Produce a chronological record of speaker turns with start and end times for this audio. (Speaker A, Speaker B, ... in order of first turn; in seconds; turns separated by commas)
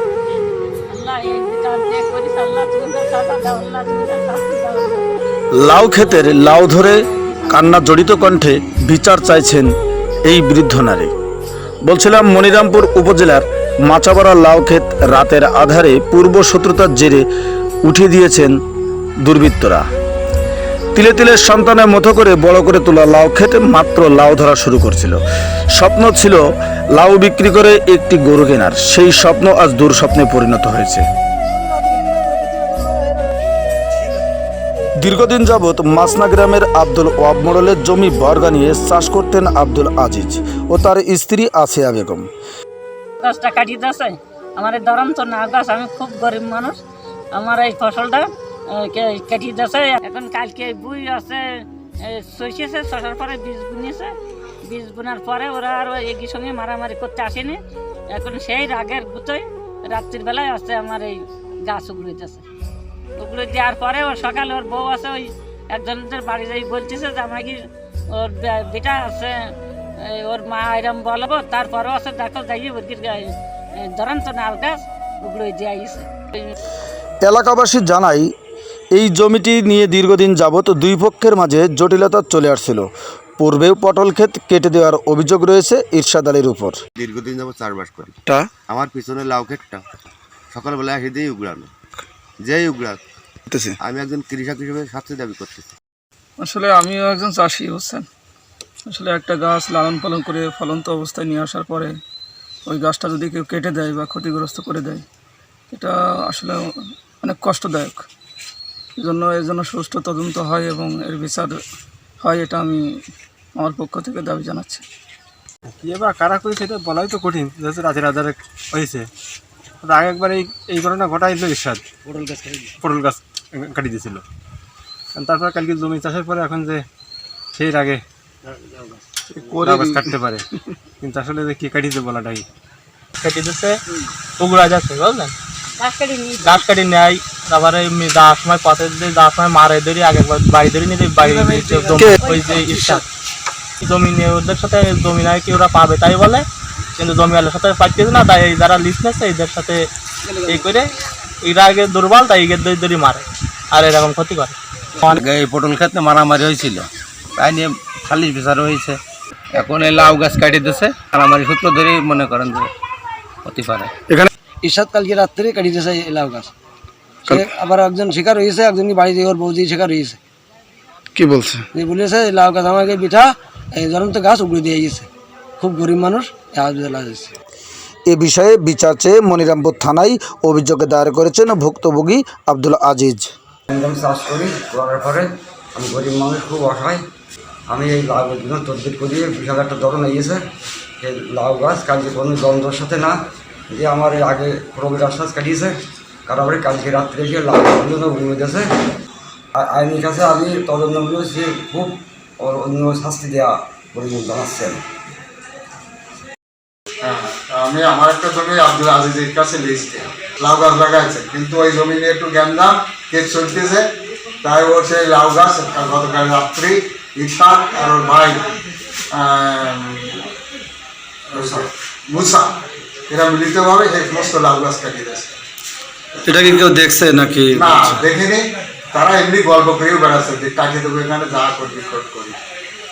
Speaker A: 0.9-5.2, Speaker B: 5.6-7.0, Speaker A: 6.0-7.7, Speaker B: 7.5-9.7, Speaker B: 10.3-11.1, Speaker B: 11.8-17.2, Speaker B: 17.9-18.5, Speaker B: 19.2-19.8, Speaker B: 20.9-25.2, Speaker B: 25.8-26.4, Speaker B: 26.9-31.0, Speaker B: 35.0-42.2, Speaker A: 43.2-46.8, Speaker A: 47.3-51.4, Speaker A: 52.1-54.1, Speaker A: 54.7-57.6, Speaker A: 58.1-62.4, Speaker A: 63.2-67.6, Speaker A: 68.1-69.3, Speaker A: 70.0-73.3, Speaker A: 73.8-76.5, Speaker B: 77.2-78.3, Speaker B: 78.9-82.9, Speaker B: 83.4-86.8, Speaker C: 87.0-88.1, Speaker C: 88.7-89.8, Speaker C: 90.5-91.7, Speaker C: 92.4-93.0, Speaker C: 93.8-95.6, Speaker D: 96.4-98.1, Speaker D: 98.9-101.9, Speaker D: 102.7-105.0, Speaker D: 105.7-106.6, Speaker D: 107.2-108.0, Speaker D: 109.0-111.6, Speaker D: 112.2-112.8, Speaker D: 113.6-114.8, Speaker E: 115.8-119.1, Speaker E: 119.8-121.8, Speaker F: 122.0-122.7, Speaker E: 122.8-124.2, Speaker E: 125.2-126.8, Speaker E: 127.5-128.0, Speaker B: 129.3-130.1, Speaker E: 129.6-130.4, Speaker E: 131.0-132.4, Speaker G: 133.2-133.7, Speaker G: 134.4-135.3, Speaker A: 135.8-136.6, Speaker G: 136.4-143.0, Speaker G: 143.8-146.4, Speaker G: 147.0-149.8, Speaker G: 150.4-150.9, Speaker G: 151.4-155.2, Speaker H: 155.1-159.0, Speaker H: 159.5-162.7, Speaker H: 163.4-163.9, Speaker F: 164.6-166.5, Speaker F: 167.2-170.2, Speaker B: 171.2-171.6, Speaker F: 171.7-177.3, Speaker B: 178.1-183.3, Speaker I: 183.8-186.9, Speaker I: 187.7-190.3, Speaker I: 191.0-193.1, Speaker I: 193.7-195.7, Speaker I: 196.3-198.6, Speaker I: 199.6-201.9, Speaker I: 202.4-204.7, Speaker J: 207.0-213.8, Speaker J: 214.4-218.5, Speaker J: 219.1-220.2, Speaker J: 221.3-222.5, Speaker J: 223.1-225.3, Speaker B: 226.2-228.0, Speaker J: 227.5-232.4